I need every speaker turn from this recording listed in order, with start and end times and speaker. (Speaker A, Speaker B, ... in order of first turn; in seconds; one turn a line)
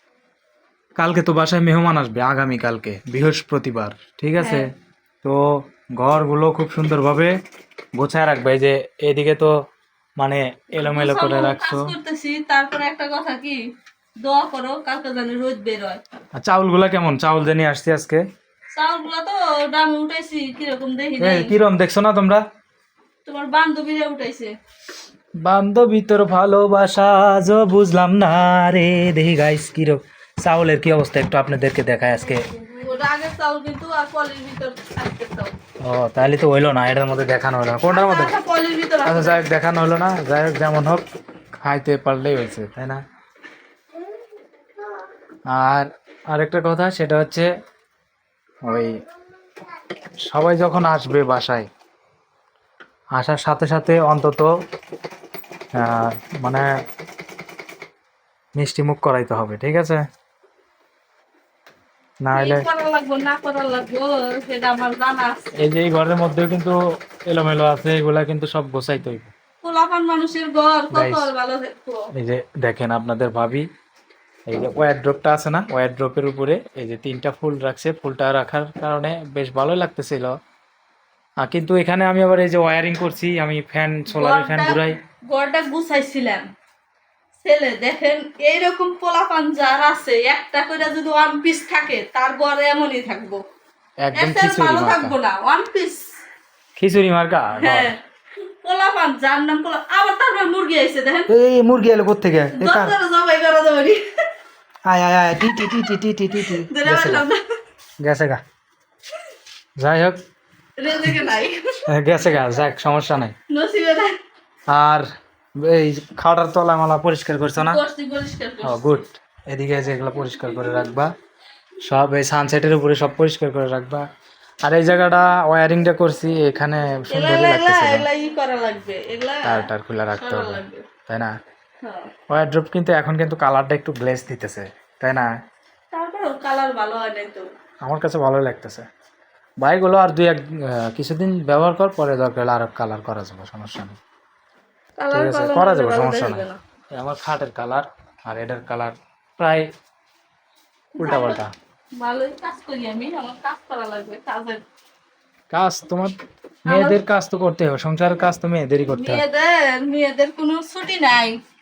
Speaker A: 1.0-4.7
Speaker B: 4.4-4.6
Speaker A: 5.2-7.3
Speaker A: 8.0-9.5
Speaker A: 10.2-11.9
Speaker B: 10.8-13.6
Speaker B: 14.2-16.0
Speaker A: 16.4-18.2
Speaker B: 18.7-21.5
Speaker A: 21.2-22.4
Speaker B: 23.2-24.5
Speaker A: 25.4-32.5
Speaker B: 32.5-35.5
Speaker A: 35.8-38.3
Speaker B: 37.9-39.4
Speaker A: 39.0-41.0
Speaker A: 41.6-43.0
Speaker A: 45.5-47.5
Speaker A: 48.6-48.9
Speaker A: 50.3-51.7
Speaker A: 53.1-54.5
Speaker A: 55.7-56.6
Speaker A: 58.6-60.0
Speaker A: 62.2-62.6
Speaker B: 62.3-65.5
Speaker A: 65.6-66.8
Speaker A: 67.3-69.3
Speaker B: 69.6-72.1
Speaker A: 70.9-71.3
Speaker A: 72.1-73.7
Speaker A: 74.5-80.3
Speaker A: 81.4-85.0
Speaker B: 84.1-86.5
Speaker B: 87.4-93.4
Speaker A: 94.0-95.2
Speaker B: 94.1-96.1
Speaker A: 96.8-97.9
Speaker B: 97.6-98.0
Speaker B: 98.6-101.3
Speaker A: 101.3-103.0
Speaker B: 102.5-104.0
Speaker A: 104.9-107.2
Speaker B: 105.5-107.4
Speaker A: 108.0-108.4
Speaker A: 109.8-110.2
Speaker B: 110.8-111.6
Speaker A: 111.9-113.3
Speaker B: 113.5-114.1
Speaker A: 114.7-115.1
Speaker A: 115.6-117.8
Speaker B: 117.6-119.0
Speaker A: 118.6-121.1
Speaker A: 121.8-124.0
Speaker A: 124.6-128.1
Speaker B: 127.1-130.8
Speaker A: 129.4-131.3
Speaker B: 131.8-132.1
Speaker A: 132.3-135.3
Speaker B: 135.9-137.5
Speaker A: 137.8-138.8
Speaker A: 139.6-143.9
Speaker B: 145.0-146.6
Speaker A: 145.1-149.7
Speaker B: 150.9-151.4
Speaker A: 151.0-151.5
Speaker B: 152.0-154.6
Speaker A: 155.5-156.1
Speaker A: 156.7-159.2
Speaker B: 156.7-157.0
Speaker B: 158.9-161.4